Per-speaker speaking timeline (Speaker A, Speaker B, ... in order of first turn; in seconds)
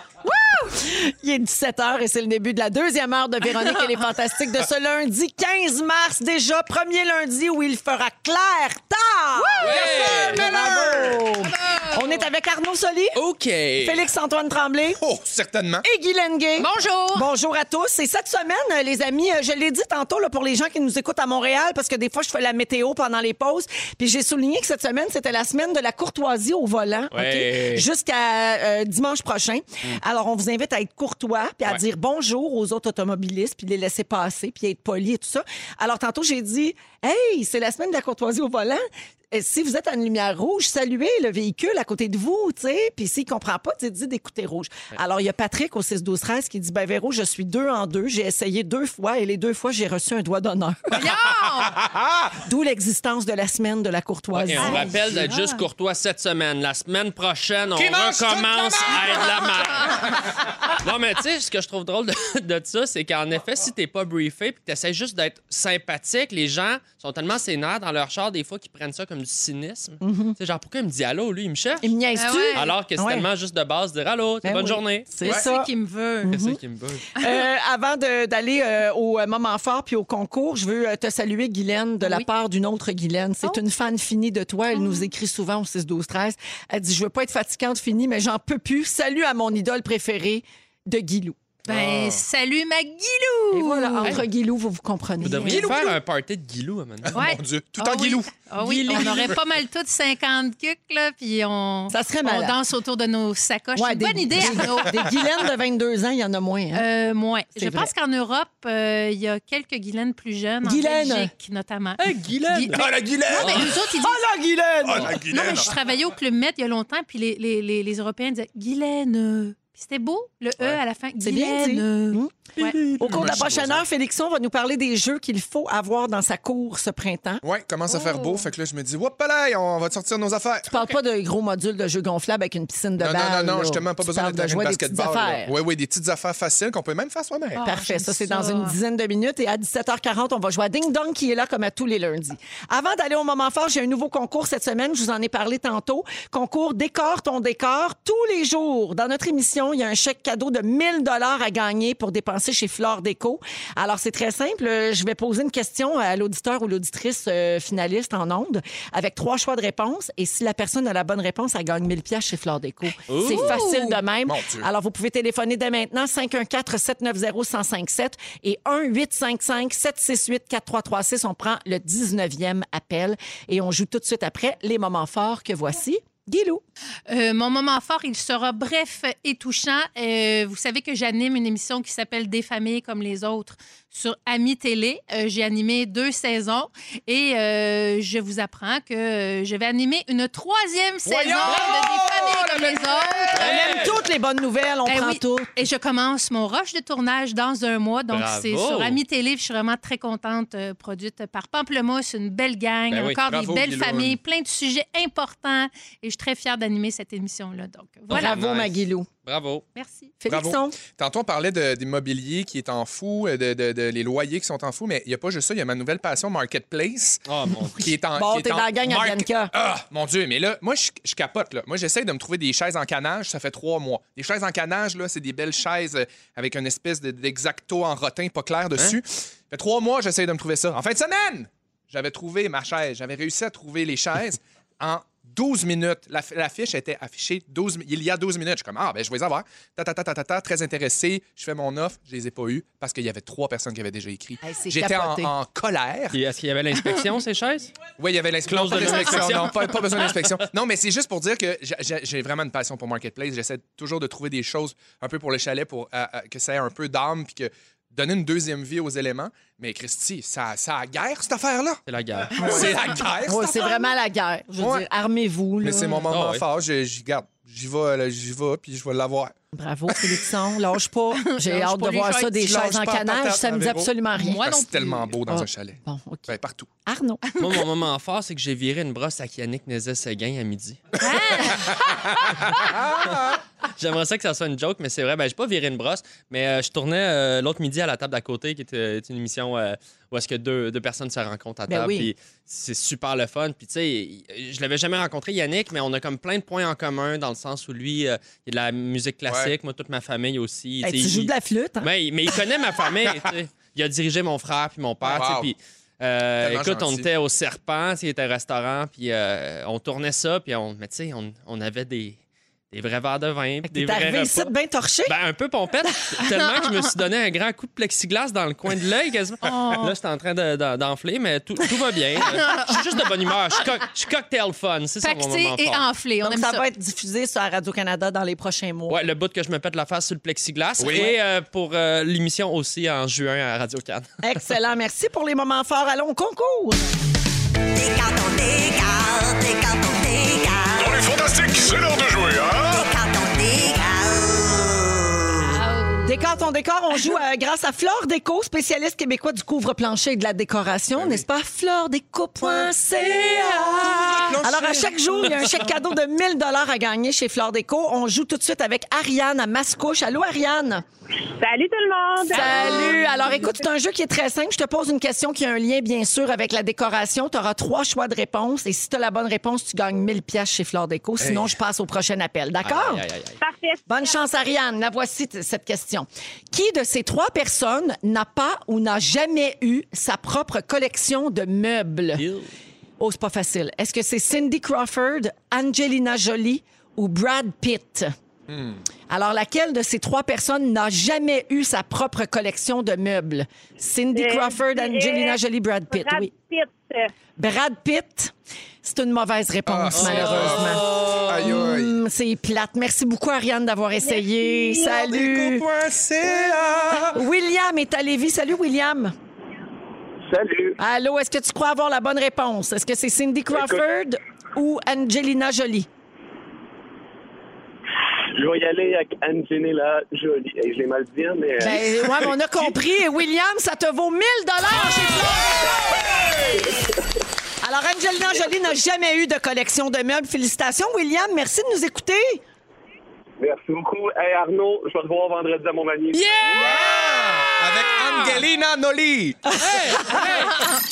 Speaker A: 0.2-13.2, 13.8-15.0, 15.8-51.1, 52.4-55.0, 70.0-70.3, 71.8-73.3, 74.4-75.7, 76.2-76.6, 77.2-91.4, 93.5-95.7, 101.9-102.6, 103.8-106.8, 107.5-107.9, 110.6-111.3, 113.3-115.2, 121.2-127.4, 130.7-135.5, 137.6-176.6, 193.3-195.5, 208.1-209.1, 210.2-210.8, 218.1-219.5, 244.4-245.3, 262.4-266.1, 269.5-274.4, 275.3-276.3, 276.9-277.2, 291.7-292.1, 300.8-301.9, 313.6-315.1, 326.2-329.0, 334.2-336.8, 337.7-341.8, 342.5-344.5, 346.0-360.9, 362.3-373.0, 373.9-382.2, 383.0-388.1, 389.1-396.3, 397.4-405.6, 407.1-409.1, 410.8-415.9, 421.6-426.4, 427.6-432.4, 439.8-440.3
Speaker B: 9.5-12.3, 16.6-17.3, 50.9-51.8, 54.6-55.6, 72.1-72.7, 75.2-76.3, 77.2-77.4, 82.0-82.3, 84.7-85.0, 91.7-94.2, 95.3-95.6, 97.1-105.2, 106.7-114.2, 115.1-122.8, 127.9-128.4, 137.6-138.8, 163.2-164.0, 177.1-193.5, 194.8-208.4, 209.8-210.1, 271.2-272.4, 274.1-275.4, 281.0-282.5, 319.4-319.9, 322.4-322.8, 325.0-326.6, 345.5-346.2
Speaker C: 9.6-10.4, 13.1-14.0, 27.1-27.9, 54.3-71.9, 72.5-75.1, 76.3-77.1, 95.2-97.2, 98.6-99.3, 112.0-112.9, 122.6-123.8, 163.1-163.6, 193.3-194.0, 198.1-199.0, 202.9-203.2, 208.1-209.6, 217.2-217.9, 246.1-247.7, 248.4-250.4, 261.9-262.3, 266.1-266.4, 277.4-281.0, 283.8-301.3, 301.8-312.2, 312.7-314.5, 315.1-325.8, 328.9-334.1, 372.6-373.4, 382.2-382.5, 399.9-401.5, 436.1-438.4, 439.6-440.6
Speaker D: 9.7-11.2, 14.9-15.8, 51.6-52.3, 57.7-60.0, 91.7-92.2, 95.4-96.0, 97.0-98.3, 98.9-99.4, 112.7-113.8, 114.8-115.7, 123.0-123.8, 127.4-130.7, 133.0-137.6, 164.2-164.7, 191.1-193.3, 203.2-204.2, 210.3-217.2, 217.8-246.2, 248.0-261.8, 262.3-263.9, 264.6-264.8, 265.6-269.3, 269.9-270.2, 272.3-276.7, 281.5-282.0, 282.5-283.3, 299.3-299.5, 305.1-305.5, 306.4-307.1, 330.8-331.1, 351.0-351.2, 353.8-355.4, 362.4-363.0, 371.2-371.5, 388.5-388.8, 399.7-401.9, 404.9-407.2, 436.6-439.6
Speaker E: 361.4-362.6, 373.4-374.1, 394.1-397.1, 404.1-404.9
Speaker F: 410.3-410.8, 413.5-413.8, 418.3-421.8, 433.4-436.3